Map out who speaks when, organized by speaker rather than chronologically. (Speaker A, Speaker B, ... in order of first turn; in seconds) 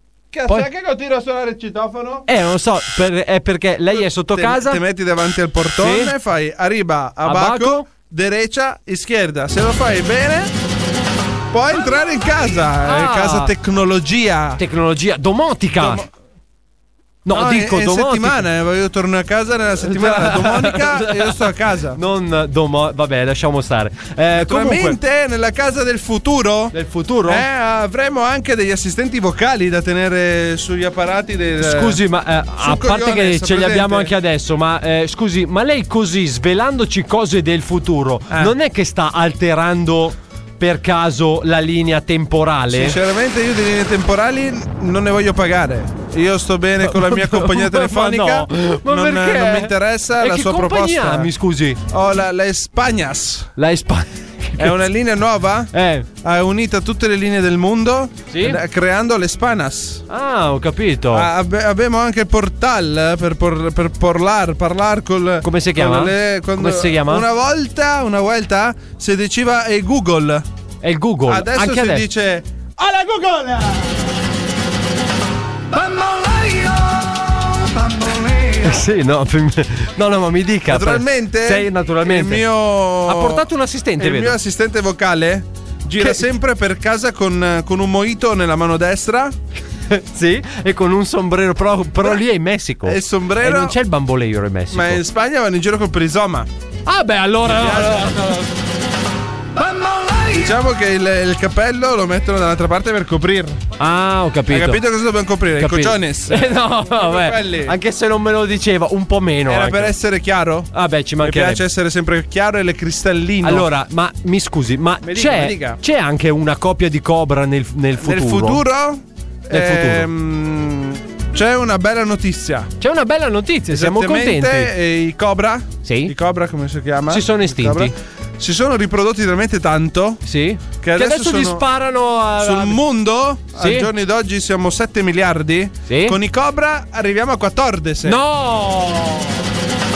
Speaker A: 0.3-2.3, 3.9-10.5, 11.5-14.6, 15.8-16.1, 17.3-22.0, 24.4-26.7, 27.3-32.0, 32.6-34.1, 42.7-51.3, 51.9-53.5, 54.6-55.7, 56.2-60.0, 61.1-70.5, 71.3-73.8, 80.7-83.5, 84.0-89.3, 92.8-93.8, 94.7-96.5, 97.4-98.4, 100.3-103.6, 104.5-107.8, 109.5-110.7, 111.2-113.7, 115.0-115.8, 118.0-122.7, 123.7-130.2, 130.8-131.7, 132.4-138.2
Speaker B: 2.3-4.8, 5.8-6.1, 7.2-7.9, 12.8-13.5, 14.6-16.0, 17.3-18.5, 19.8-25.0, 26.7-27.4, 31.6-43.0, 46.9-51.8, 53.6-54.8, 55.7-56.1, 58.3-58.6, 60.1-61.3, 65.4-67.2, 70.8-72.0, 78.5-82.5, 83.1-84.3, 89.9-95.0, 96.9-98.5, 103.8-104.8, 105.6-109.9, 110.7-111.6, 113.4-118.6, 119.5-120.1, 122.8-124.7, 125.8-126.1, 127.1-127.9, 130.2-132.8, 133.6-133.9, 135.9-136.2, 138.1-139.3